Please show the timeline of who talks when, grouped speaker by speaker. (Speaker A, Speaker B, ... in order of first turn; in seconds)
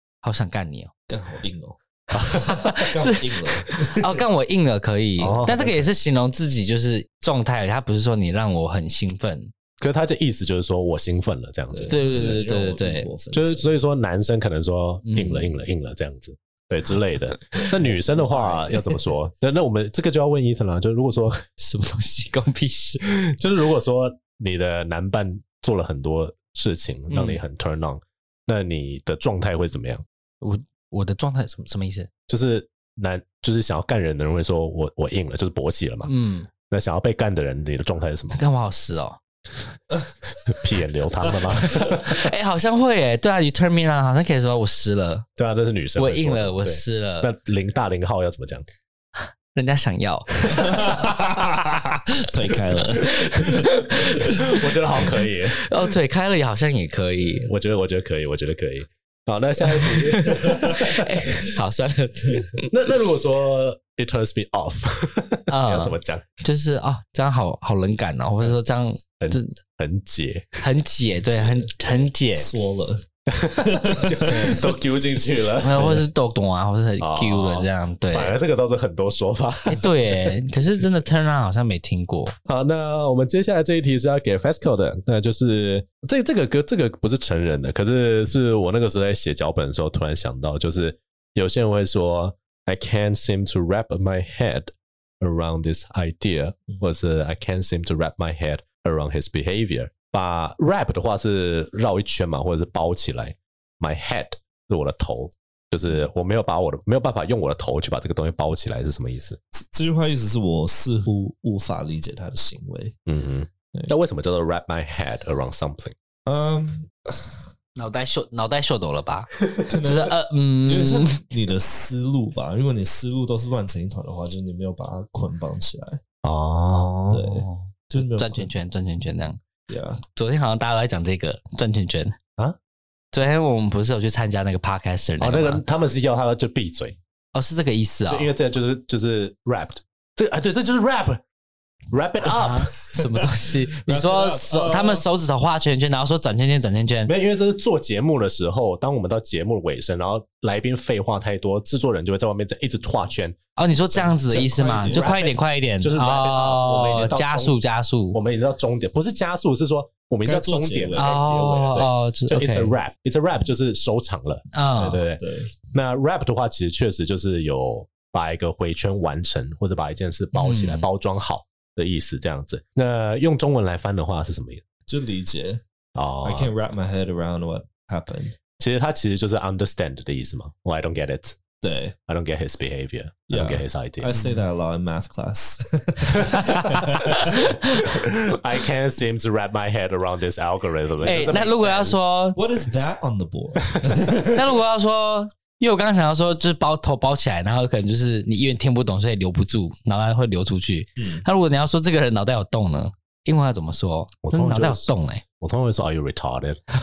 Speaker A: 0.2-0.9, 2.5-9.5, 11.9-13.1, 15.0-15.5, 17.7-19.0, 21.6-23.1, 27.1-27.4, 30.4-32.1, 36.0-36.5, 38.4-39.2, 41.4-45.3, 46.0-47.3, 49.2-50.8, 53.0-57.5, 59.7-62.7, 65.5-69.5, 70.6-72.5, 74.2-74.7, 75.6-78.4, 79.7-82.4, 117.8-121.2, 127.3-129.4, 130.1-132.2, 133.1-135.6, 137.3-138.3, 142.7-147.1, 153.6-158.2, 160.9-162.8, 164.5-165.0, 170.3-170.9, 184.1-184.4, 191.0-192.4, 194.3-205.2
Speaker B: 1.1-1.8, 2.5-4.1, 11.7-13.7, 50.6-53.7, 71.4-73.0, 73.6-74.6, 109.5-113.0, 116.2-117.4, 119.7-126.0, 127.1-128.5, 129.7-130.0, 142.9-145.0, 153.8-155.1, 160.2-161.4, 165.2-165.5, 174.9-175.6, 176.2-178.4, 181.6-181.9, 183.3-187.5, 191.0-191.4, 192.3-194.6, 201.0-201.2
Speaker C: 2.1-2.7, 5.2-5.9, 9.8-12.1, 13.3-21.4, 23.0-30.0, 32.3-36.1, 36.6-38.4, 40.5-42.3, 45.4-48.6, 50.6-51.0, 53.4-55.9, 57.3-61.2, 62.7-66.2, 69.2-70.6, 73.3-76.0, 77.0-80.3, 82.5-109.4, 113.1-116.0, 126.2-127.2, 135.2-137.0, 138.1-141.2, 141.9-142.7, 147.1-153.4, 154.9-157.6, 158.1-174.6, 175.9-176.5, 178.6-181.4, 182.1-184.1, 186.1-192.2, 204.2-204.9, 205.4-206.6